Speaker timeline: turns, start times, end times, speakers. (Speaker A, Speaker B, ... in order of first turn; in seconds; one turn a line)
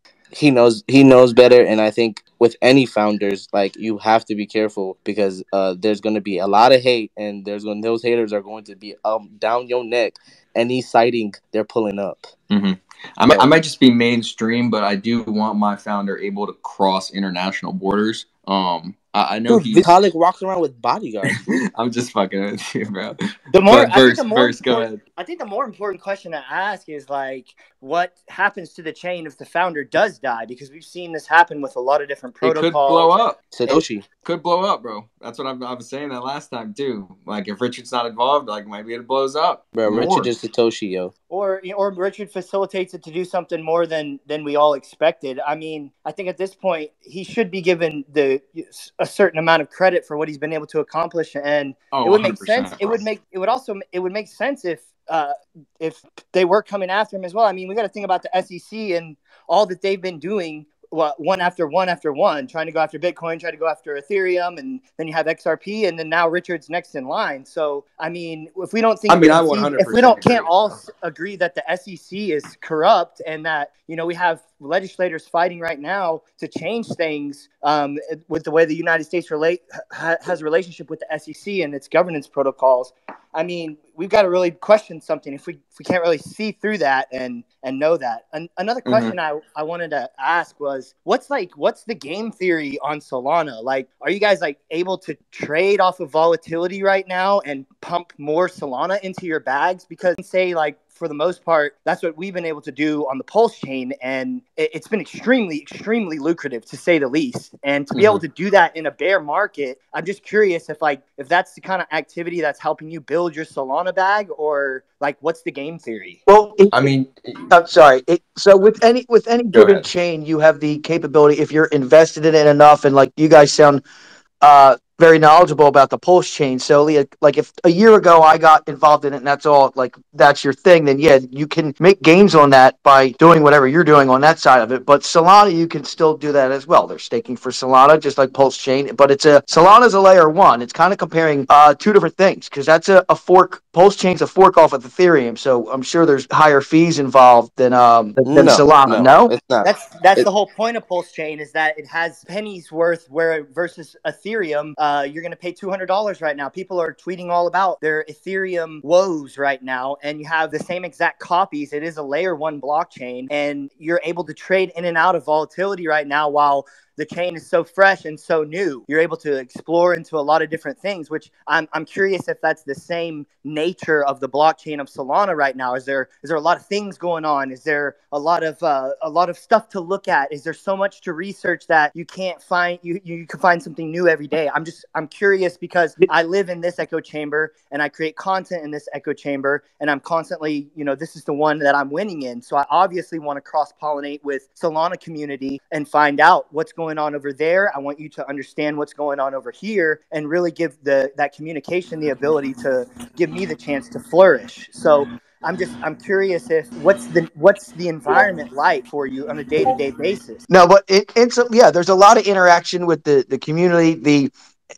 Speaker A: 0.3-12.3
Speaker B: 12.5-19.9
Speaker A: 19.5-21.6
Speaker B: 21.3-25.0
Speaker C: 23.5-33.2
Speaker B: 32.4-40.3
Speaker A: 33.5-34.0
Speaker A: 39.7-41.1
Speaker C: 41.3-116.2
Speaker B: 51.9-53.0
Speaker B: 69.1-70.8
Speaker B: 88.8-89.1
Speaker B: 107.9-108.2
Speaker D: 116.3-123.8
Speaker B: 116.7-117.4
Speaker B: 119.5-119.9
Speaker D: 124.4-149.4
Speaker A: 148.2-150.2
Speaker C: 149.6-210.4
Speaker D: 210.5-214.3